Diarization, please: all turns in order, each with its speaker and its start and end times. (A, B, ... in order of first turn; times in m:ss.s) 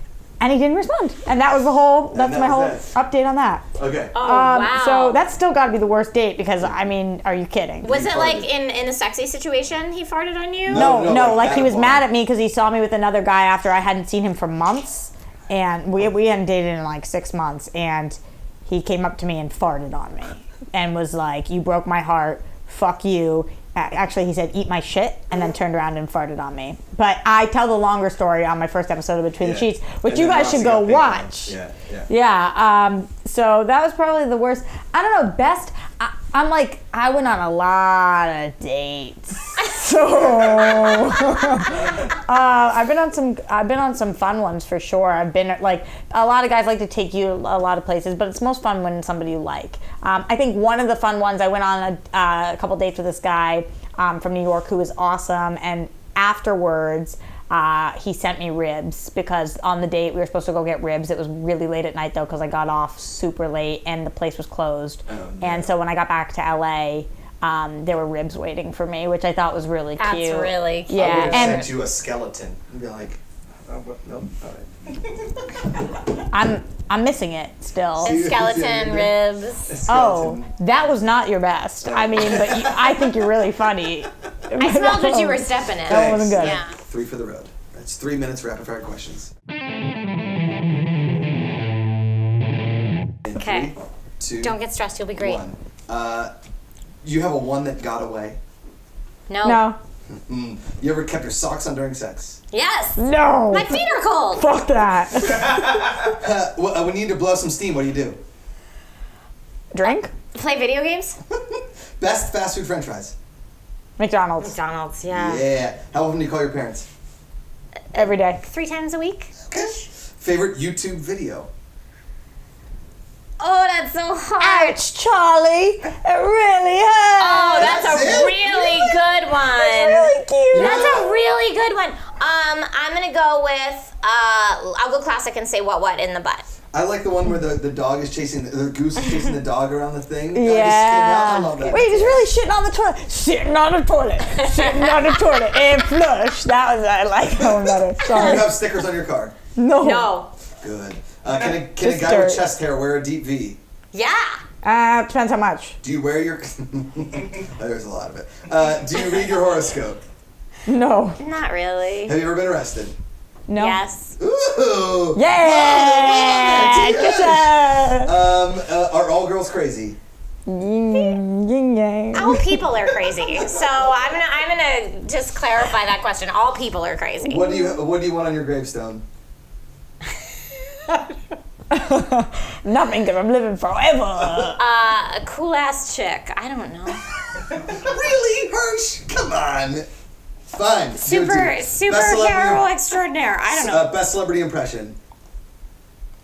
0:00.4-0:03.6 A
0:02.1-0:02.9 B
0:03.8-0:04.1 B
0:04.1-0:05.2 C
0:04.2-0:07.9 A
0:07.8-0:10.9 C
0:07.8-0:08.5 B
0:10.6-0:12.0 B
0:10.7-0:31.6 A
0:29.4-0:32.1 B
0:32.1-1:11.6 A
0:40.2-0:41.1 B
1:05.1-1:05.7 B
1:10.0-1:11.7 C
1:11.0-1:15.8 B
1:16.3-1:18.2 A
1:18.0-1:19.1 B
1:18.0-1:19.7 C
1:19.6-1:20.5 B
1:19.9-1:26.6 A
1:21.8-1:23.2 B
1:24.6-1:26.7 C
1:25.8-1:29.3 B
1:33.2-1:34.6 B
1:33.4-1:33.7 C
1:34.4-1:35.4 C
1:35.2-1:36.3 B
1:37.0-1:38.4 B
1:39.3-1:39.6 C
1:39.4-1:39.8 A
1:40.1-1:42.4 B
1:42.5-1:44.4 C
1:43.0-1:43.8 A
1:44.4-1:46.0 A
1:45.5-1:48.2 B
1:49.7-1:50.1 A
1:50.3-1:51.2 C
1:51.3-1:53.1 B
1:54.0-1:54.5 A
1:54.4-1:55.4 C
1:55.1-1:56.9 B
1:57.9-1:58.4 A
1:57.9-1:59.8 C
1:59.5-2:01.5 B
2:03.4-2:04.8 C
2:04.4-2:08.1 A
2:07.2-2:16.4 C
2:07.6-2:08.9 B
2:09.5-2:11.0 A
2:10.5-2:11.1 B
2:16.7-2:22.3 B
2:20.3-2:28.5 A
2:24.4-2:25.8 C
2:28.1-2:29.3 B
2:29.6-2:30.1 A
2:29.8-2:30.3 C
2:30.6-2:33.6 B
2:31.7-2:32.4 A
2:33.9-2:34.4 C
2:34.6-2:35.8 A
2:35.8-2:40.0 B
2:40.7-2:41.2 A
2:41.2-2:42.1 C
2:42.0-2:42.9 B
2:43.5-2:43.8 A
2:43.6-2:44.2 C
2:44.2-2:50.0 B
2:45.1-2:48.1 A
2:50.5-2:52.6 A
2:52.1-2:57.5 C
2:52.8-2:54.1 B
2:57.2-2:59.0 B
3:00.7-3:01.1 C
3:01.7-3:04.6 A
3:04.6-3:07.4 C
3:07.5-3:09.9 B
3:10.5-3:12.7 B
3:11.0-3:13.9 C
3:13.5-3:15.0 B